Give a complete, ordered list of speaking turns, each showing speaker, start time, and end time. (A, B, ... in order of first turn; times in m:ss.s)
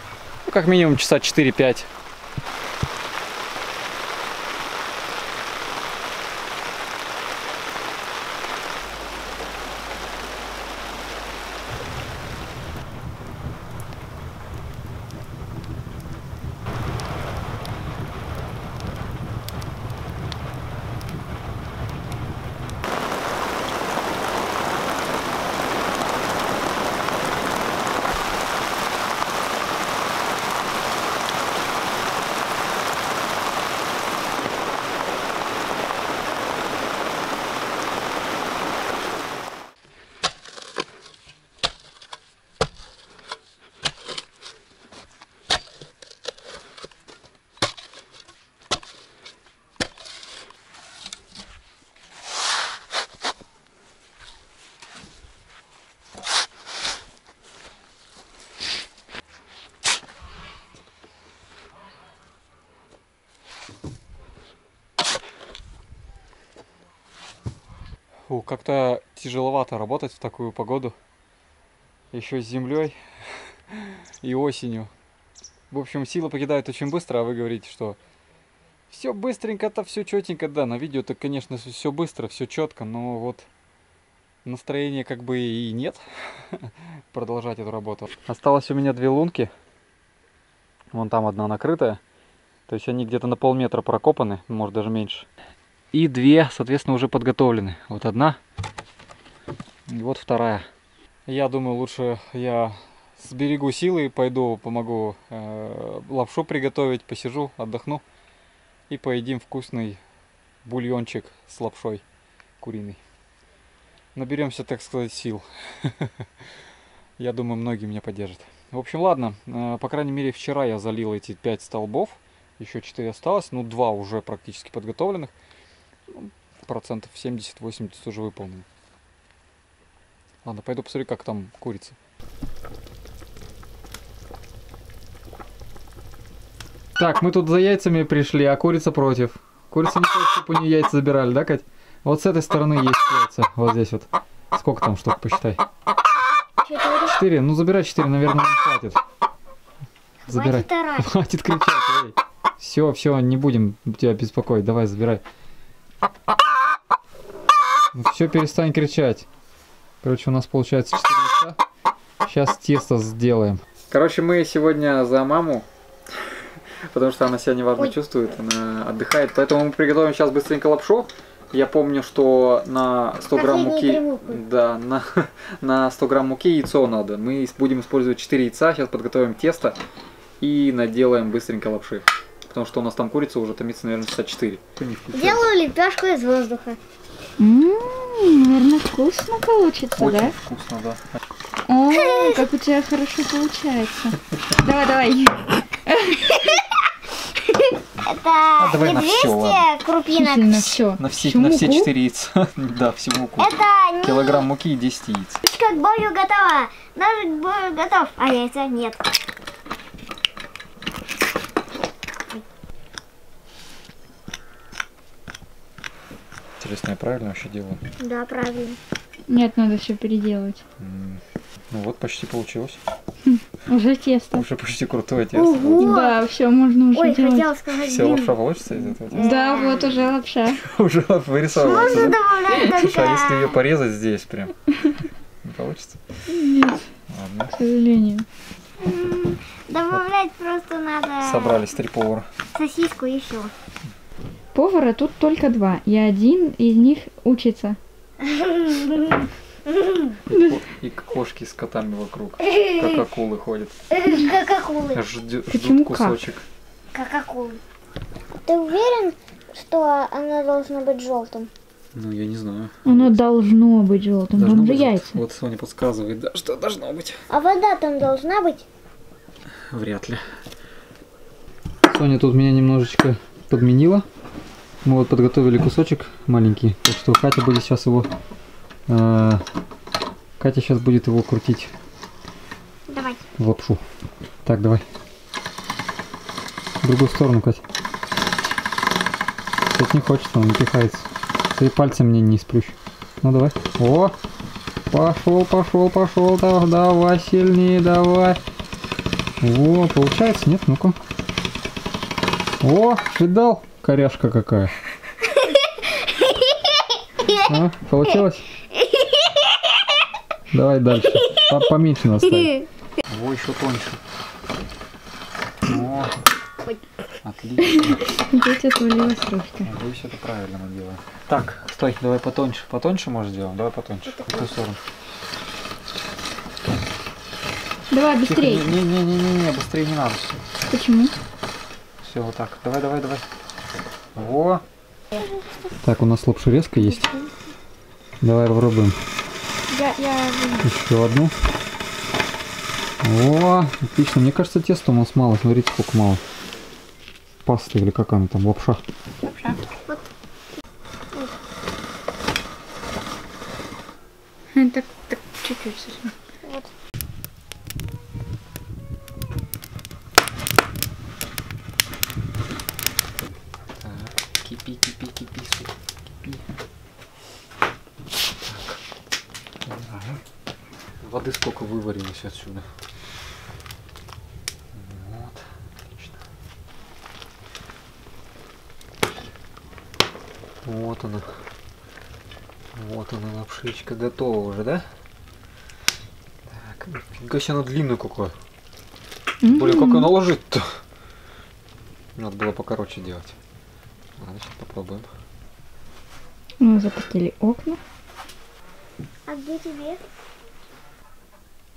0:00.4-0:01.9 A
1:08.3-1:11.0 A
1:12.1-1:14.9 A
1:15.7-1:18.0 A
1:18.9-1:23.5 A
1:24.4-1:29.5 A
1:30.9-1:32.0 A
1:32.7-1:35.3 A
1:35.9-1:38.4 A
1:39.9-1:40.6 A
1:41.3-1:48.0 A
1:48.9-1:50.0 A
1:50.6-1:52.0 A
1:52.6-1:53.0 A
1:54.2-1:56.3 A
1:57.2-2:05.3 A
2:06.1-2:08.7 A
2:10.4-2:12.0 A
2:17.0-2:25.6 A
2:26.6-2:27.2 B
2:27.0-2:29.0 A
2:30.2-2:31.1 B
2:30.3-2:35.2 A
2:37.9-2:39.3 A
2:40.0-2:41.6 A
2:42.2-2:45.7 A
2:46.2-2:59.8 A
2:53.3-2:54.4 B
3:00.4-3:05.5 A
3:05.1-3:06.8 B
3:07.4-3:10.4 C
3:10.0-3:11.2 A
3:11.7-3:16.6 C
3:11.9-3:12.5 B
3:16.2-3:16.6 B
3:17.4-3:20.6 B
3:18.6-3:19.7 A
3:20.1-3:21.9 C
3:20.6-3:25.4 A
3:23.4-3:24.5 B
3:25.4-3:29.1 B
3:36.6-3:37.8 A
3:38.0-3:38.8 B
3:39.3-3:40.6 C
3:40.8-3:42.8 A
3:43.3-3:44.5 C
3:44.3-3:46.0 A
3:45.3-3:46.2 B
3:45.8-3:47.5 C
3:46.9-3:50.0 B
3:47.8-3:49.3 A
3:49.2-3:50.6 C
3:50.6-3:54.6 A
3:51.5-3:53.5 B
3:55.4-3:56.0 A
3:56.3-3:56.9 C
3:57.1-3:57.5 A
3:57.5-3:58.3 C
3:58.8-4:01.6 B
4:01.2-4:02.3 A
4:02.6-4:03.5 B
4:04.5-4:07.8 C
4:08.2-4:10.2 B
4:10.3-4:13.7 A
4:10.3-4:10.6 C
4:12.4-4:13.0 B
4:13.9-4:15.0 B
4:14.9-4:16.4 A
4:15.5-4:16.2 C
4:16.9-4:17.6 B
4:18.4-4:21.5 B
4:21.9-4:23.2 A
4:22.8-4:25.2 C
4:24.3-4:27.2 A
4:27.3-4:28.7 B
4:29.5-4:30.3 A
4:31.9-4:34.0 A
4:34.8-4:38.1 A
4:38.9-4:39.4 A
4:40.4-4:41.7 A
4:42.9-4:43.2 B
4:43.4-4:43.8 A
4:44.4-4:44.8 A
4:46.8-4:47.6 A
4:49.7-4:54.2 A
4:54.9-4:58.4 A
4:59.4-5:01.0 A
5:02.6-5:04.7 A
5:05.4-5:07.4 B
5:07.3-5:08.5 A
5:08.8-5:09.6 B
5:10.5-5:14.0 A
5:15.6-5:16.2 A
5:17.2-5:18.1 A
5:18.1-5:19.7 C
5:19.6-5:24.8 A
5:27.9-5:28.7 C
5:28.2-5:30.4 A
5:30.7-5:31.1 C
5:32.0-5:33.3 A
5:34.2-5:34.6 A
5:35.1-5:35.7 B
5:35.8-5:37.1 A
5:38.2-5:39.0 A
5:39.7-5:40.7 C
5:40.6-5:41.3 A
5:43.0-5:46.2 A
5:47.5-5:48.8 A
5:49.3-5:49.6 C
5:54.5-5:56.1 C
5:56.4-5:56.7 B
6:03.8-6:06.4 A
6:08.4-6:08.8 A
6:09.6-6:10.2 A
6:11.0-6:12.7 A
6:14.7-6:16.2 A
6:20.6-6:21.3 A
6:22.7-6:24.9 A
6:26.5-6:28.3 A
6:29.4-6:30.1 C
6:29.4-6:30.8 A
6:32.2-6:33.4 A
6:34.2-6:35.1 A
6:36.6-6:37.8 C
6:39.3-6:40.0 B